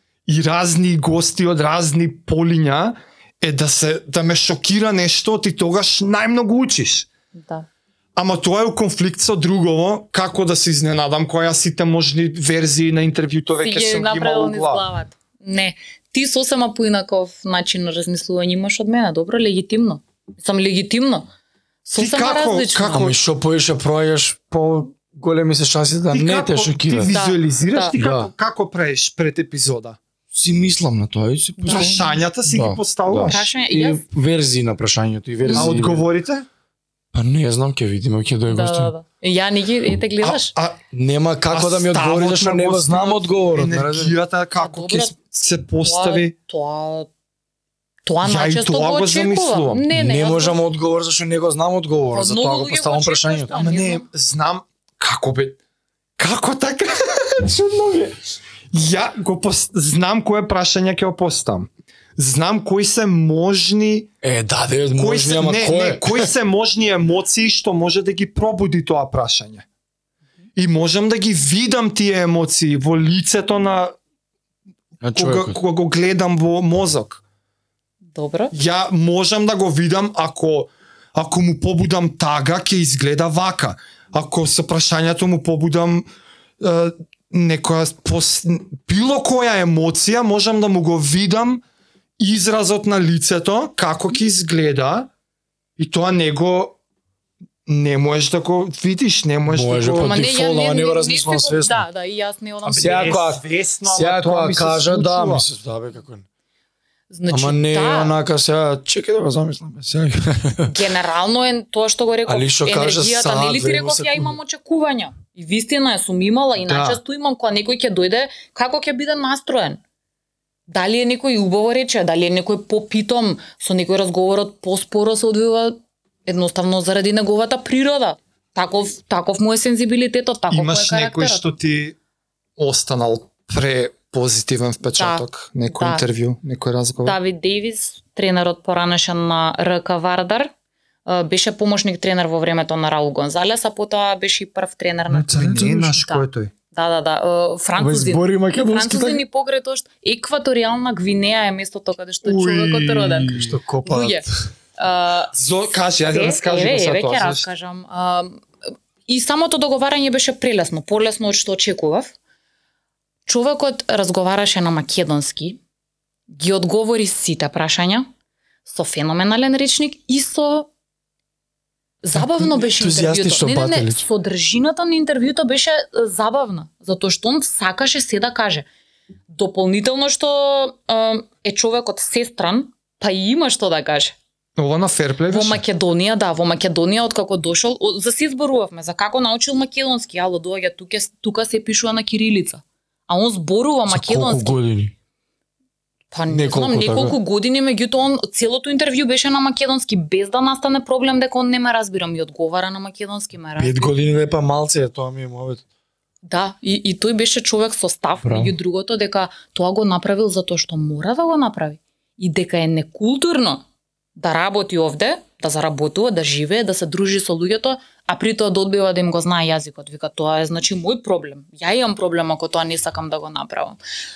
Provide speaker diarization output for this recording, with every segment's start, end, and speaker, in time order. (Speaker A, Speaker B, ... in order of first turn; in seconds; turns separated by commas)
Speaker A: 0.3-7.1, Speaker B: 7.3-7.7, Speaker A: 8.2-14.8, Speaker B: 13.6-21.3, Speaker B: 21.9-23.0, Speaker A: 22.0-23.2, Speaker C: 22.9-27.1, Speaker A: 26.1-30.0, Speaker B: 27.1-27.9, Speaker C: 27.9-28.3, Speaker C: 30.3-36.0, Speaker B: 31.6-32.1, Speaker A: 31.6-33.5, Speaker B: 33.3-34.0, Speaker B: 35.4-35.8, Speaker A: 35.5-36.5, Speaker C: 37.1-38.9, Speaker B: 38.5-40.5, Speaker A: 40.2-40.8, Speaker C: 40.9-44.1, Speaker A: 41.5-46.3, Speaker B: 44.6-45.1, Speaker B: 45.8-47.1, Speaker B: 48.0-50.6, Speaker A: 48.2-49.8, Speaker C: 49.9-53.5, Speaker B: 52.1-54.0, Speaker A: 53.5-55.6, Speaker A: 56.2-57.3, Speaker C: 57.4-58.1, Speaker A: 58.7-64.1, Speaker C: 64.2-66.3, Speaker A: 65.0-69.6, Speaker A: 70.5-73.9, Speaker C: 75.0-75.5, Speaker A: 75.1-77.2, Speaker B: 78.1-78.5, Speaker A: 78.5-86.1, Speaker A: 86.6-91.6, Speaker A: 92.2-95.1, Speaker A: 95.8-96.8, Speaker A: 97.7-100.2, Speaker C: 99.5-101.8, Speaker B: 100.0-103.2, Speaker A: 102.7-105.4, Speaker C: 102.7-106.2, Speaker B: 107.1-108.1, Speaker C: 107.3-110.8, Speaker B: 110.7-119.8, Speaker C: 112.2-114.4, Speaker A: 116.7-117.0, Speaker B: 120.7-131.4, Speaker A: 130.5-131.9, Speaker A: 132.6-137.2, Speaker B: 135.0-136.0, Speaker B: 137.0-140.5, Speaker B: 141.1-154.2, Speaker C: 145.1-146.0, Speaker A: 145.3-146.5, Speaker C: 147.8-149.2, Speaker A: 152.2-153.5, Speaker C: 153.3-154.2, Speaker B: 154.8-155.3, Speaker A: 155.3-157.5, Speaker B: 155.9-158.4, Speaker B: 159.1-162.1, Speaker B: 163.3-165.6, Speaker B: 166.3-168.1, Speaker B: 168.7-170.7, Speaker B: 172.0-178.7, Speaker C: 172.1-174.0, Speaker B: 179.3-184.2, Speaker A: 184.6-185.6, Speaker B: 185.3-194.6, Speaker C: 193.9-194.9, Speaker B: 196.1-203.9, Speaker C: 196.3-197.2, Speaker C: 203.6-205.6, Speaker B: 206.2-213.6, Speaker C: 208.2-208.6, Speaker B: 214.2-223.8